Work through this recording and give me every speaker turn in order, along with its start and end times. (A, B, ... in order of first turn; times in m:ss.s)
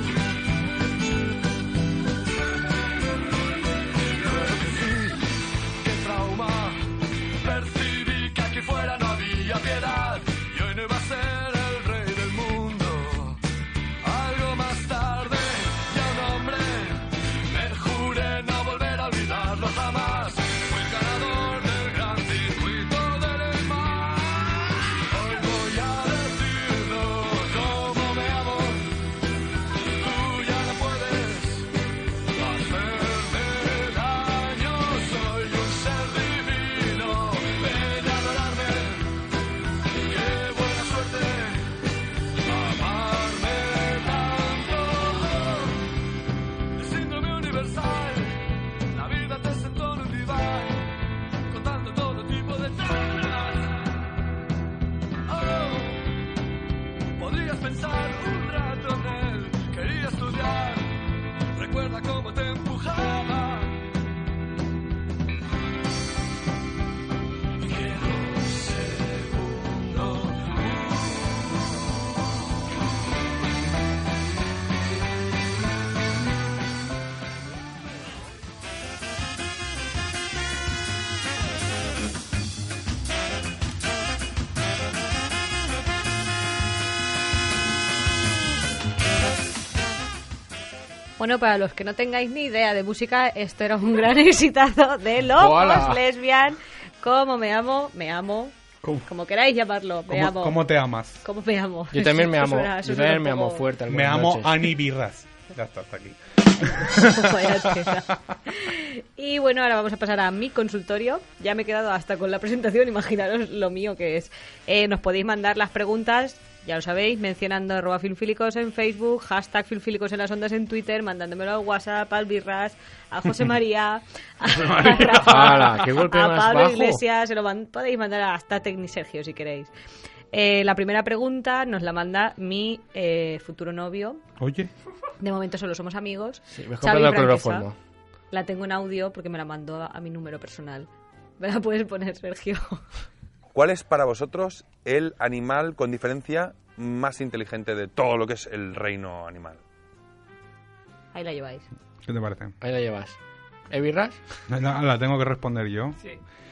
0:04.1-0:13.4 A
0:14.0-0:28.9 A
0:29.8-0:31.7 A
0:32.3-0:39.2 A
0:40.0-0:41.8 A
0:42.4-0:45.8 A
0:46.8-0:50.9 A
0:51.5-0:53.8 A
0:55.3-0:56.1 A
0:57.2-1:01.0 A
1:01.5-1:03.8 A
1:07.6-1:11.4 A
1:31.2-1:40.7 B
1:35.3-1:36.0 C
1:40.1-1:41.2 D
1:41.2-1:43.6 B
1:41.9-1:44.7 C
1:43.9-1:48.0 D
1:46.6-2:09.7 B
2:04.4-2:05.7 D
2:05.1-2:07.0 C
2:10.3-2:14.2 B
2:14.4-2:14.7 D
2:15.2-2:17.7 B
2:16.5-2:17.8 C
2:18.3-2:22.8 B
2:23.5-2:29.6 E
2:31.1-2:31.7 B
2:32.0-2:32.5 D
2:32.6-2:33.2 C
2:33.7-2:34.2 C
2:34.5-2:36.0 D